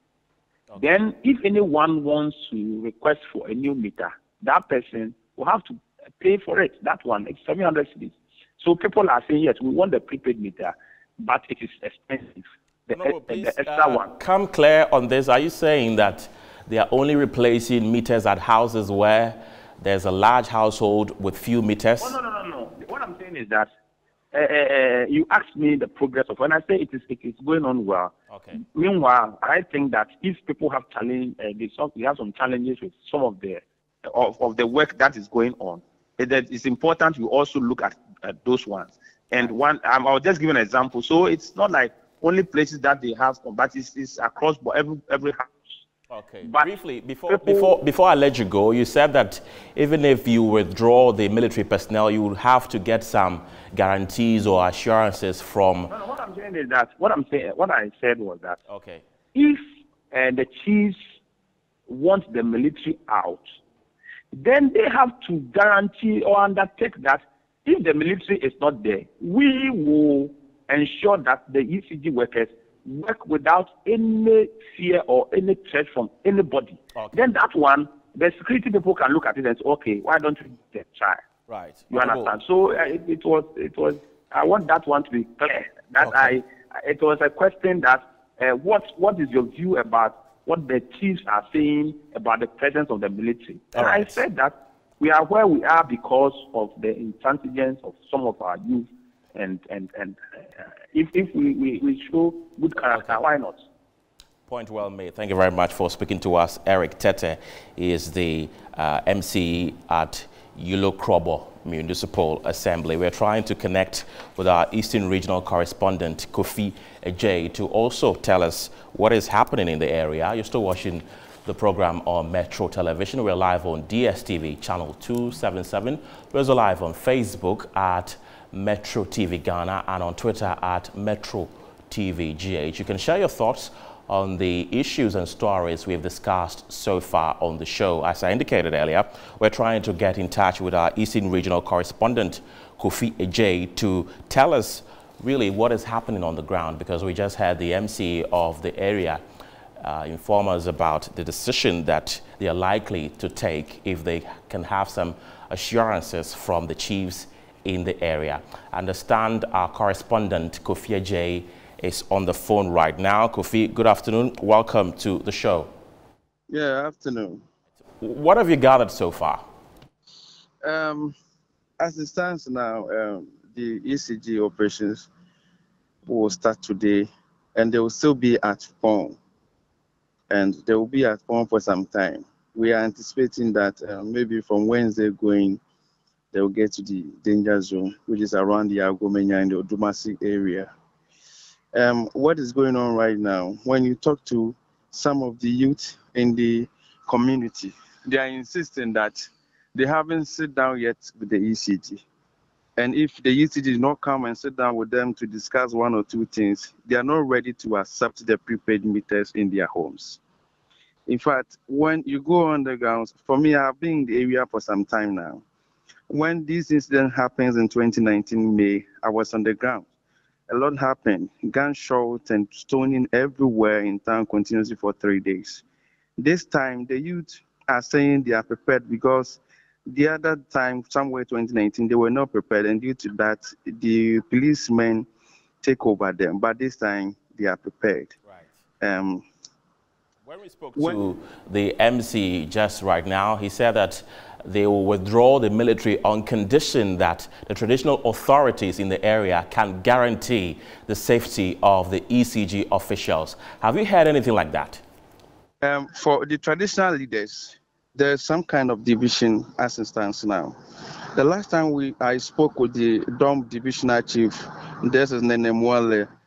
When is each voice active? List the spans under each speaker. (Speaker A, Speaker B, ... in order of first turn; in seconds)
Speaker A: 0.8-14.1, 22.0-23.7, 24.3-45.8, 46.4-46.7, 47.3-47.8, 55.9-58.6, 59.3-61.0, 61.9-63.5, 64.3-81.2, 81.9-100.2, 100.9-103.6
Speaker B: 12.9-22.2, 28.3-28.6, 46.1-55.9, 58.7-59.0, 76.9-77.2, 81.5-82.3, 86.0-86.4, 93.7-94.2, 102.9-103.2, 104.5-149.2, 149.8-165.7, 168.0-169.4, 238.2-238.5, 240.2-254.8
Speaker C: 166.5-167.4, 170.6-171.1, 171.8-175.1, 176.1-179.2, 180.3-185.6, 186.3-190.7, 191.7-199.2, 199.7-202.0, 202.8-210.2, 211.1-215.4, 216.1-219.9, 220.5-225.6, 226.2-235.1, 235.6-238.1, 238.8-239.2, 240.8-241.0, 255.6-260.5, 261.1-266.1